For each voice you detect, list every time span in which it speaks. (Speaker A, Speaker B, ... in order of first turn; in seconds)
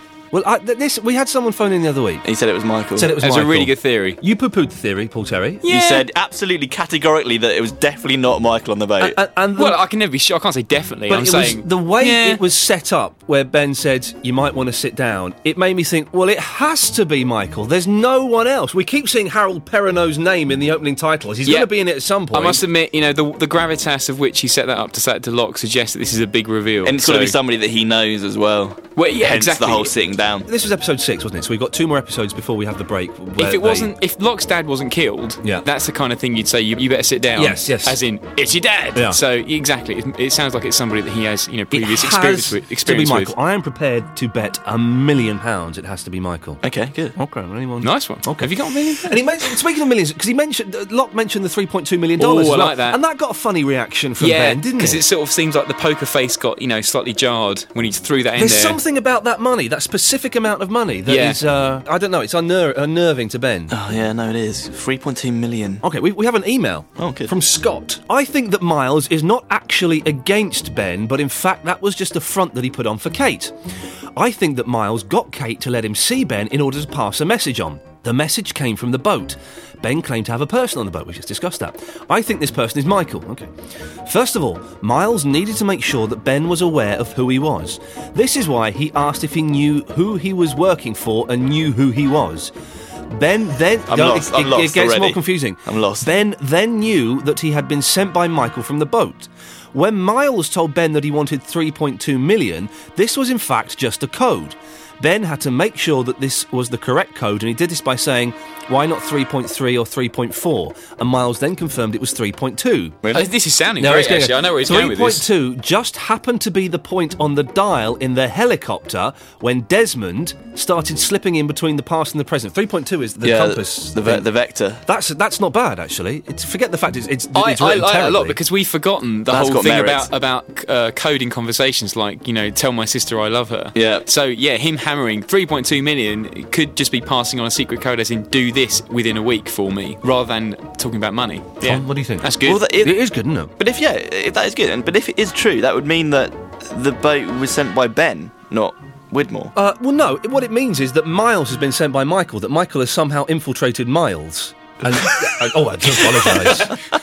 Speaker A: 0.3-2.2, 3.0-5.6, 9.0-9.8, 11.1-22.6, 30.5-34.0, 37.4-38.0, 38.9-39.2, 41.7-46.6, 47.1-55.0, 58.4-63.8, 65.8-73.5, 74.2-83.5, 84.1-92.5, 93.1-113.0, 113.8-124.3, 124.9-128.4, 141.6-143.5, 149.6-156.8
Speaker B: 2.2-3.1, 5.7-9.2, 26.8-30.5, 46.6-47.1, 63.7-65.8, 67.0-67.3, 93.9-96.1, 123.2-124.8, 129.3-130.1, 133.8-134.1, 142.4-143.0, 143.6-149.5
Speaker C: 3.2-4.2, 5.6-6.1, 9.6-12.4, 21.4-21.7, 22.3-27.4, 29.0-29.9, 33.4-43.4, 47.8-49.2, 52.2-53.0, 54.2-58.8, 61.1-61.4, 113.1-115.2, 127.3-142.6